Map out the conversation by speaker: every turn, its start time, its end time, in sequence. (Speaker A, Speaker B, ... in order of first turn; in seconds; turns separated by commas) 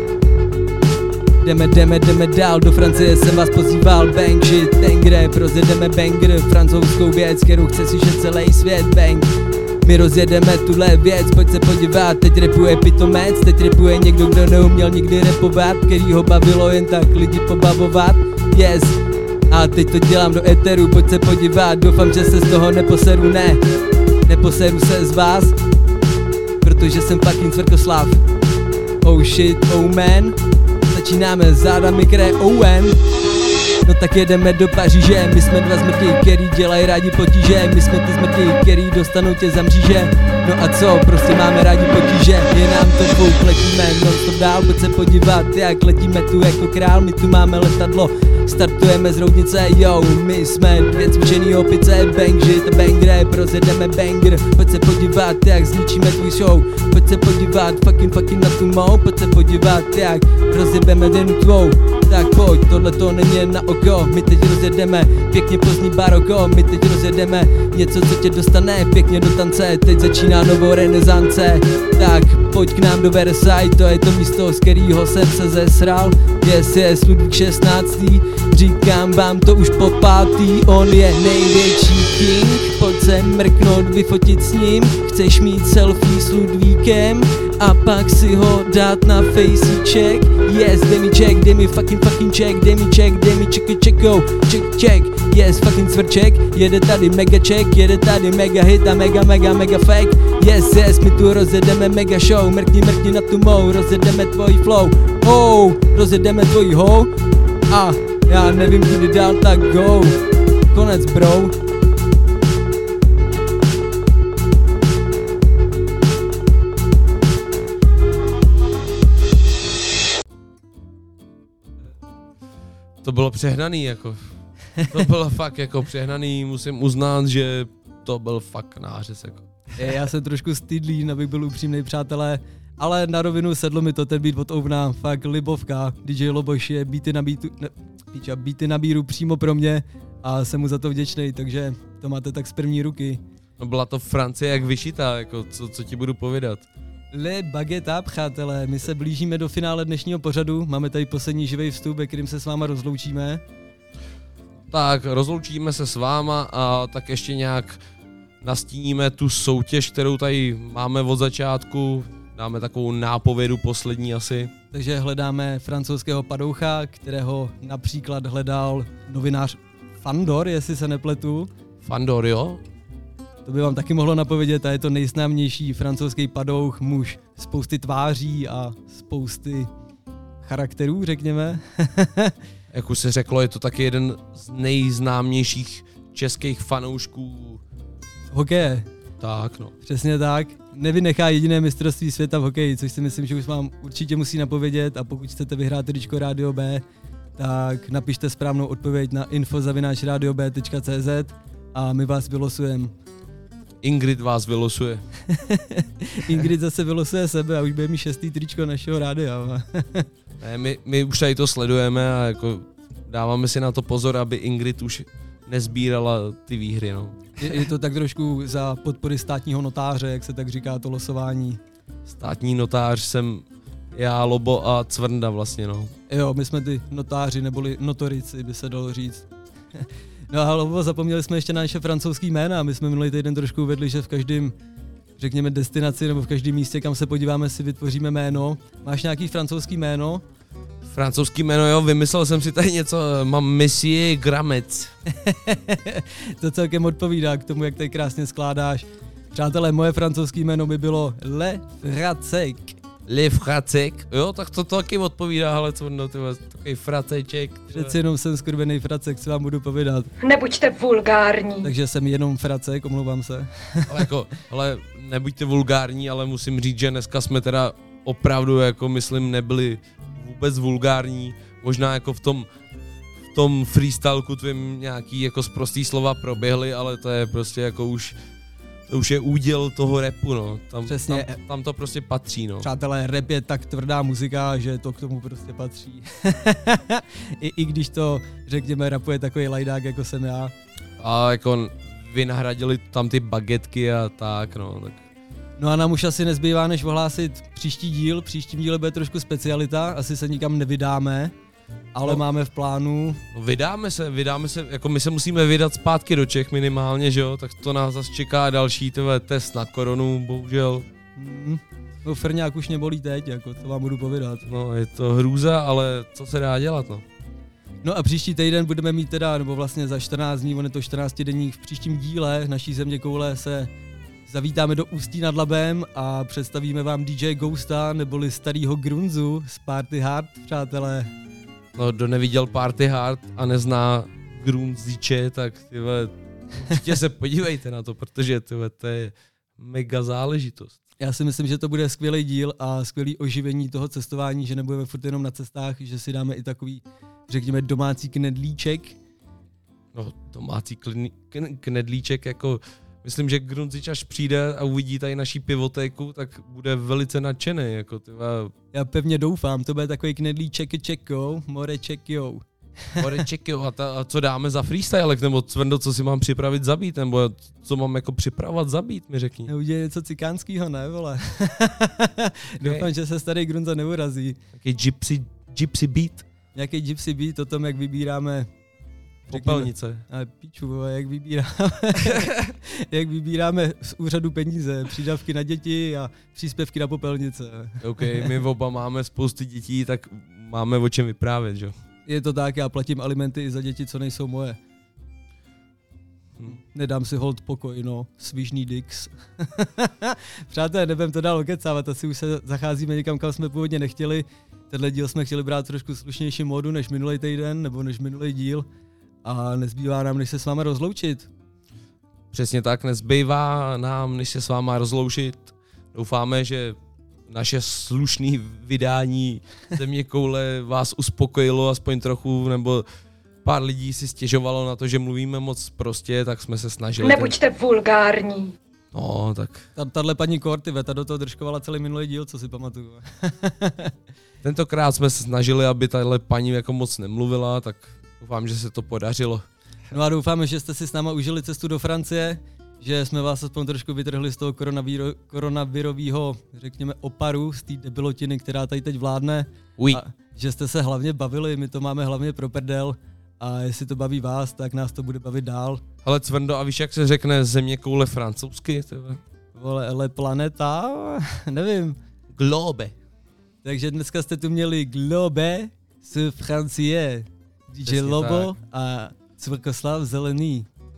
Speaker A: 1.4-9.3, Speaker A: 9.8-19.0, Speaker A: 19.5-23.6, Speaker A: 24.3-25.5, Speaker A: 26.6-28.2, Speaker A: 29.0-30.4, Speaker A: 30.9-33.0, Speaker A: 33.8-107.1, Speaker A: 107.7-110.2, Speaker A: 110.7-111.5, Speaker B: 123.0-129.4, Speaker A: 129.8-143.2, Speaker B: 143.6-146.6, Speaker A: 147.1-153.4, Speaker B: 154.7-157.8, Speaker B: 158.4-164.5, Speaker A: 164.7-171.5, Speaker B: 171.8-172.6, Speaker A: 173.4-179.7, Speaker A: 180.4-182.3, Speaker B: 182.7-187.6, Speaker A: 188.3-188.9, Speaker B: 189.2-189.7, Speaker A: 189.8-196.8, Speaker A: 197.4-202.9, Speaker B: 203.8-205.0, Speaker A: 205.3-210.1, Speaker B: 210.4-217.5, Speaker A: 217.4-221.6, Speaker B: 222.1-225.9, Speaker A: 226.1-229.2, Speaker A: 229.8-234.5, Speaker A: 235.2-240.2, Speaker B: 240.9-244.9, Speaker A: 245.1-252.8, Speaker B: 253.1-257.9, Speaker A: 257.7-260.1, Speaker C: 260.2-261.7, Speaker A: 261.6-263.9, Speaker B: 263.9-272.5, Speaker B: 273.3-278.1, Speaker B: 278.9-282.7, Speaker A: 280.9-281.4, Speaker A: 282.6-290.5, Speaker B: 291.0-295.0, Speaker A: 295.6-301.3, Speaker A: 301.9-303.2, Speaker B: 303.3-310.9, Speaker A: 311.1-314.4, Speaker B: 314.4-317.0, Speaker A: 317.8-323.7, Speaker A: 324.3-331.1, Speaker B: 331.8-340.8, Speaker A: 341.0-349.0, Speaker B: 349.9-358.5, Speaker A: 358.7-362.4, Speaker B: 363.0-369.5, Speaker A: 369.5-374.4, Speaker B: 372.6-372.9, Speaker B: 374.6-376.2, Speaker A: 376.5-378.5, Speaker B: 379.3-380.0, Speaker A: 379.3-382.3, Speaker B: 382.0-382.5, Speaker A: 382.9-388.3, Speaker B: 387.8-391.7, Speaker A: 392.1-394.6, Speaker A: 396.4-408.6, Speaker A: 409.2-411.3, Speaker B: 412.3-416.8, Speaker B: 417.3-422.8, Speaker B: 423.4-427.4, Speaker C: 427.0-428.5, Speaker B: 428.9-429.6, Speaker A: 429.8-433.9, Speaker B: 434.4-439.4, Speaker A: 439.9-455.8, Speaker B: 456.0-459.2, Speaker A: 459.5-462.0, Speaker B: 462.3-462.9, Speaker A: 463.6-470.7, Speaker B: 467.9-468.5